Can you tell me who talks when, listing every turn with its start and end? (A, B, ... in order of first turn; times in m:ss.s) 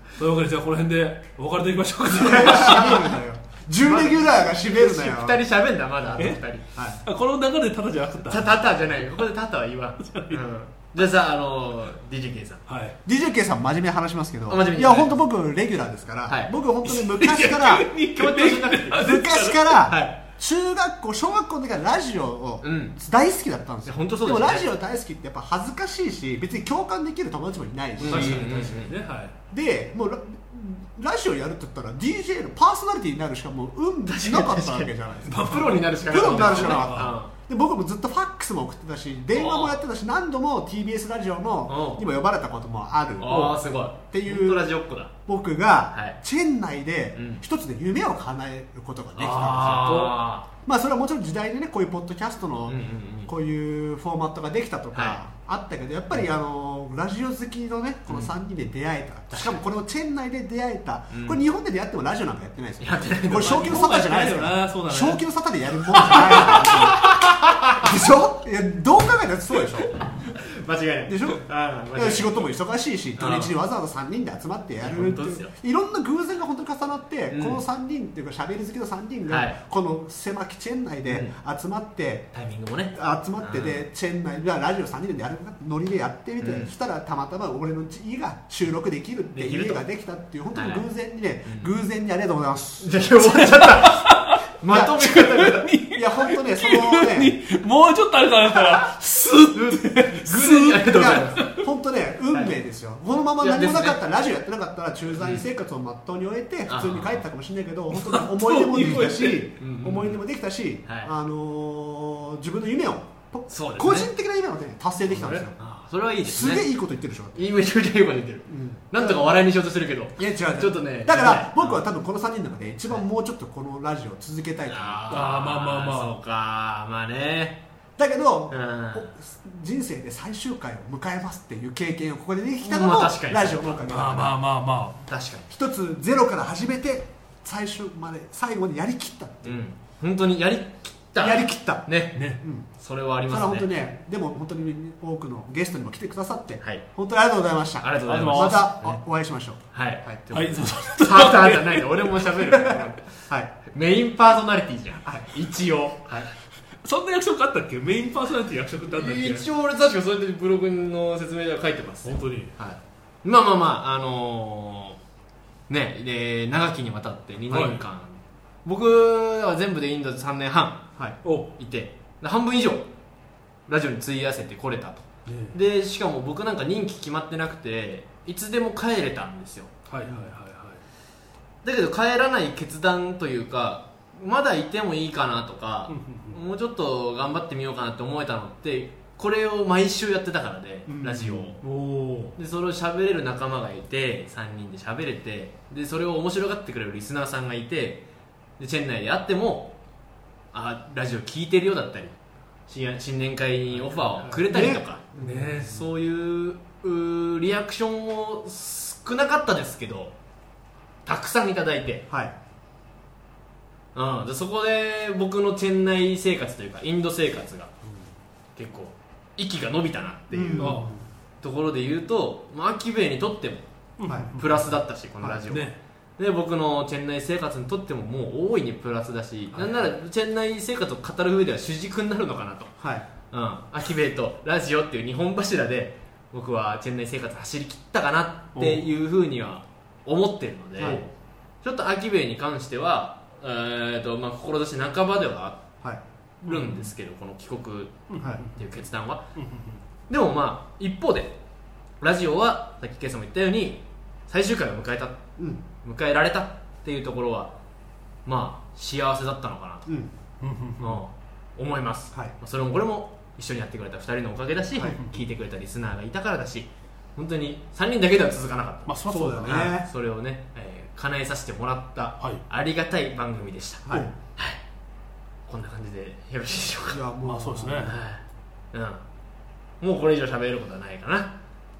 0:00.2-0:03.1 A
0:02.2-0:05.4 B
0:02.2-0:03.0 C
0:03.8-0:06.6 C
0:06.2-0:08.6 A
0:06.8-0:07.0 B
0:08.3-0:12.6 C
0:10.0-0:10.4 A
0:12.7-0:13.0 A
0:13.0-0:17.9 B
0:14.5-0:15.2 C
0:16.3-0:16.5 C
0:16.8-0:19.9 A
0:18.1-0:19.2 C
0:18.9-0:28.5 B
0:19.8-0:20.2 C
0:22.6-0:23.0 C
0:23.8-0:24.7 C
0:28.0-0:28.9 C
0:28.0-0:29.3 A
0:29.5-0:50.1 B
0:34.1-0:37.3 C
0:34.2-0:34.6 A
0:35.2-0:37.1 A
0:39.3-0:39.8 C
0:41.7-0:42.0 C
0:43.2-0:45.1 C
0:45.9-0:46.2 C
0:47.2-0:47.4 C
0:49.2-0:50.5 C
0:49.2-0:50.2 A
0:50.6-1:09.9 B
0:52.6-0:53.3 C
0:54.9-0:55.2 C
0:58.1-0:58.3 C
0:59.3-0:59.6 C
1:01.1-1:01.4 C
1:02.8-1:03.8 C
1:03.4-1:05.2 A
1:05.9-1:06.8 A
1:06.0-1:07.9 C
1:10.1-1:12.5 C
1:11.1-1:22.3 B
1:13.2-1:13.5 C
1:14.8-1:15.5 C
1:17.3-1:17.6 C
1:19.3-1:19.6 C
1:21.0-1:21.3 C
1:22.3-1:23.8 C
1:22.9-1:33.6 B
1:26.4-1:26.7 C
1:29.3-1:29.8 C
1:30.5-1:30.8 C
1:31.4-1:31.7 C
1:32.8-1:35.7 C
1:33.5-1:34.4 A
1:35.0-1:41.6 A
1:35.9-1:37.4 B
1:39.5-1:41.6 C
1:40.9-1:55.6 B
1:43.4-1:44.0 C
1:45.2-1:45.5 C
1:46.7-1:47.2 C
1:47.9-1:49.5 A
1:49.6-1:50.2 C
1:50.8-1:51.1 C
1:53.5-1:54.1 C
1:55.1-1:56.7 C
1:56.2-1:57.5 B
1:57.3-2:01.8 C
1:58.5-1:59.2 B
2:00.2-2:05.3 B
2:04.7-2:07.6 C
2:05.1-2:06.1 A
2:08.0-2:14.4 B
2:08.5-2:09.1 C
2:12.6-2:13.8 C
2:13.9-2:15.0 A
2:15.1-2:15.5 C
2:15.5-2:19.6 B
2:19.4-2:23.7 C
2:21.2-2:22.7 B
2:22.1-2:22.4 A
2:23.3-2:30.2 B
2:27.8-2:29.0 C
2:28.0-2:28.7 A
2:29.7-2:36.3 C
2:30.3-2:32.2 A
2:32.7-2:33.5 B
2:35.0-2:35.4 B
2:36.8-2:39.4 A
2:38.9-2:45.0 C
2:42.0-2:42.5 A
2:45.7-2:50.9 C
2:47.5-2:47.7 B
2:47.5-2:47.8 A
2:51.2-2:51.5 A
2:51.6-2:52.9 C
2:53.7-2:59.7 C
2:55.2-2:55.6 A
2:59.9-3:00.8 A
3:00.0-3:00.3 B
3:01.6-3:11.6 C
3:05.9-3:06.4 A
3:11.1-3:11.5 B
3:11.6-3:12.4 A
3:12.4-3:18.1 C
3:18.6-3:19.8 C
3:20.5-3:22.2 C
3:22.7-3:30.1 C
3:24.5-3:25.6 B
3:25.1-3:25.8 A
3:31.0-3:32.0 C
3:32.1-3:32.3 B
3:33.9-3:37.7 C
3:38.6-3:40.9 C
3:40.3-3:40.9 B
3:40.6-3:40.9 A
3:41.4-3:43.7 C
3:44.0-3:44.8 A
3:44.0-3:44.3 B
3:44.3-3:52.8 C
3:45.5-3:45.8 A
3:49.5-3:49.8 B
3:52.8-3:53.1 B
3:53.3-4:01.1 C
3:58.5-3:58.8 A
4:00.8-4:01.0 B
4:01.6-4:05.6 C
4:06.4-4:06.9 A
4:06.4-4:09.3 C
4:08.1-4:08.6 A
4:09.3-4:09.8 A
4:10.1-4:11.4 C
4:12.0-4:15.2 C
4:15.4-4:15.6 B
4:15.8-4:17.5 C
4:18.2-4:19.8 C
4:19.9-4:20.1 B
4:20.4-4:21.0 A
4:20.8-4:34.6 C
4:28.9-4:29.7 A
4:29.1-4:29.9 B
4:33.8-4:34.1 B
4:35.5-4:37.0 C
4:36.9-4:37.9 B
4:37.2-4:38.0 A
4:37.8-4:39.0 C
4:39.8-4:41.4 C